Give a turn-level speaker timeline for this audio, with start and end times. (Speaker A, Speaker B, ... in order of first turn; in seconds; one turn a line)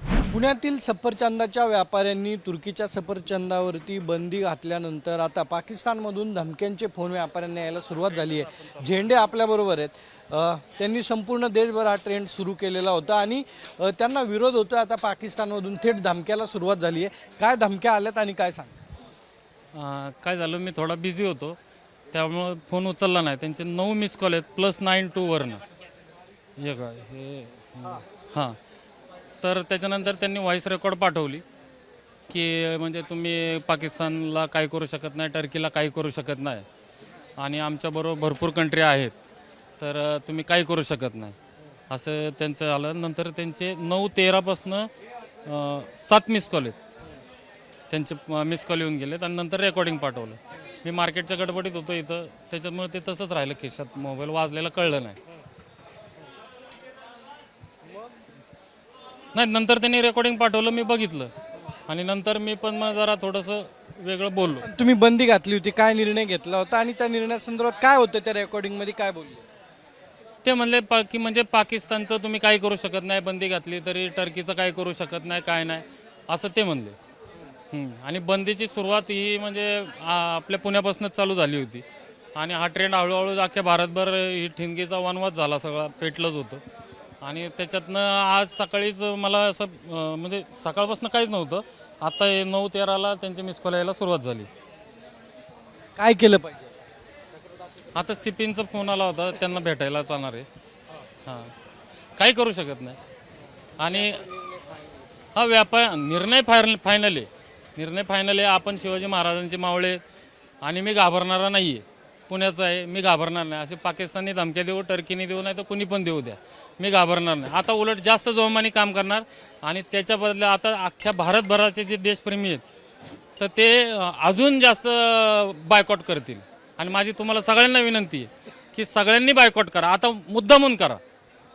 Speaker A: 0.3-18.8
Speaker B: 19.7-21.6
Speaker B: 22.1-25.6
Speaker B: 26.6-28.6
Speaker B: 29.4-31.4
Speaker B: 32.3-36.6
Speaker B: 37.4-39.1
Speaker B: 39.8-41.4
Speaker B: 41.9-44.9
Speaker B: 45.5-46.8
Speaker B: 47.9-55.2
Speaker B: 59.3-61.3
Speaker B: 61.9-64.7
Speaker A: 64.6-69.4
Speaker B: 70.4-77.0
Speaker B: 77.7-81.8
Speaker B: 82.3-86.6
Speaker B: 87.2-94.5
Speaker A: 96.0-96.7
Speaker B: 97.9-100.5
Speaker B: 101.2-101.5
Speaker B: 102.2-103.0
Speaker B: 103.8-104.3
Speaker B: 105.3-110.0
Speaker B: 110.6-122.7
Speaker B: 123.4-131.0